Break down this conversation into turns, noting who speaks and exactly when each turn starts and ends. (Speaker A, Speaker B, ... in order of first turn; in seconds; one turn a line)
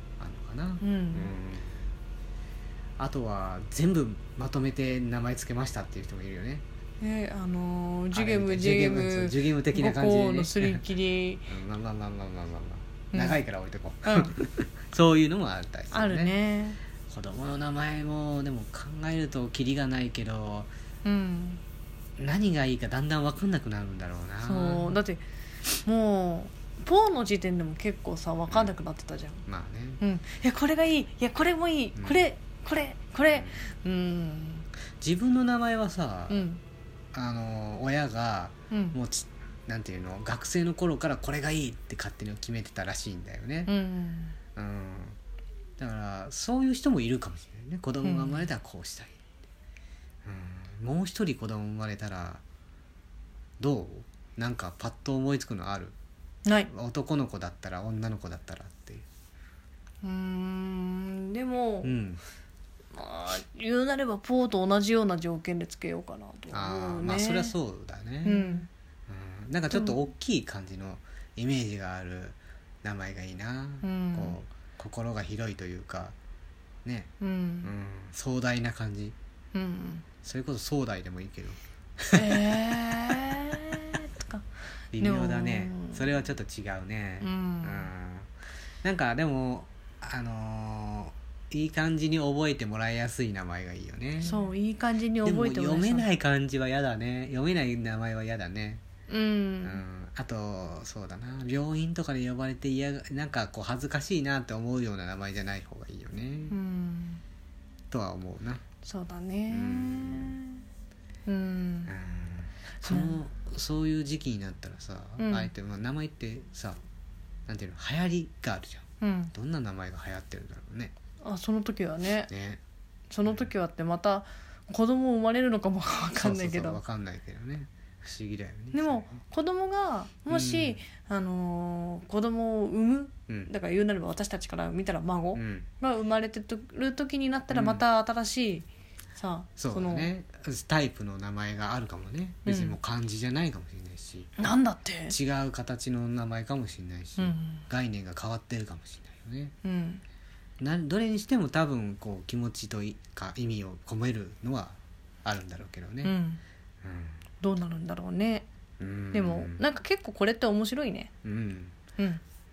Speaker A: 0.2-1.8
Speaker B: 0.8-1.3
Speaker A: 3.0-6.6
Speaker B: 7.0-11.5
Speaker A: 8.1-10.8
Speaker A: 11.5-16.3
Speaker B: 13.1-13.4
Speaker B: 14.1-14.4
Speaker B: 15.9-16.8
Speaker A: 17.0-20.7
Speaker B: 21.0-21.6
Speaker A: 22.2-25.0
Speaker B: 24.4-25.2
Speaker B: 25.8-29.4
Speaker A: 29.5-30.0
Speaker B: 30.0-34.7
Speaker A: 32.0-32.3
Speaker A: 33.3-33.6
Speaker A: 35.0-36.4
Speaker B: 36.3-36.6
Speaker A: 37.1-43.7
Speaker B: 38.7-39.0
Speaker B: 43.7-44.4
Speaker A: 44.5-45.2
Speaker A: 45.8-49.2
Speaker B: 48.0-48.5
Speaker A: 50.2-52.4
Speaker A: 53.6-55.9
Speaker A: 56.7-59.0
Speaker B: 60.0-62.0
Speaker A: 61.8-62.2
Speaker B: 62.9-67.5
Speaker A: 66.5-76.2
Speaker B: 68.2-68.7
Speaker B: 69.7-70.0
Speaker B: 73.8-74.4
Speaker A: 76.8-77.1
Speaker B: 77.2-77.7
Speaker A: 77.6-79.2
Speaker B: 79.5-80.1
Speaker A: 80.2-83.3
Speaker B: 82.1-84.4
Speaker A: 84.9-88.3
Speaker B: 85.0-86.1
Speaker B: 87.2-87.9
Speaker A: 88.8-94.5
Speaker B: 94.2-96.1
Speaker A: 95.2-98.8
Speaker B: 99.1-99.8
Speaker A: 99.6-106.6
Speaker B: 106.5-107.2
Speaker A: 107.9-108.6
Speaker B: 108.8-110.6
Speaker A: 109.5-110.3
Speaker B: 111.3-111.9
Speaker A: 111.9-116.8
Speaker B: 112.8-113.1
Speaker B: 115.2-115.5
Speaker A: 117.5-120.9
Speaker B: 119.0-119.3
Speaker B: 121.2-122.3
Speaker A: 122.3-122.6
Speaker B: 123.1-126.8
Speaker A: 126.2-129.1
Speaker B: 128.7-140.1
Speaker A: 130.3-130.8
Speaker A: 135.3-135.7
Speaker A: 137.5-137.8
Speaker A: 139.6-144.3
Speaker B: 142.4-142.8
Speaker B: 144.4-145.2
Speaker A: 145.1-149.5
Speaker B: 147.2-147.6
Speaker B: 149.6-150.0
Speaker A: 150.6-156.1
Speaker B: 156.0-156.4
Speaker A: 156.8-157.2
Speaker B: 157.4-158.5
Speaker A: 158.8-159.6
Speaker B: 159.1-161.1
Speaker A: 161.2-161.8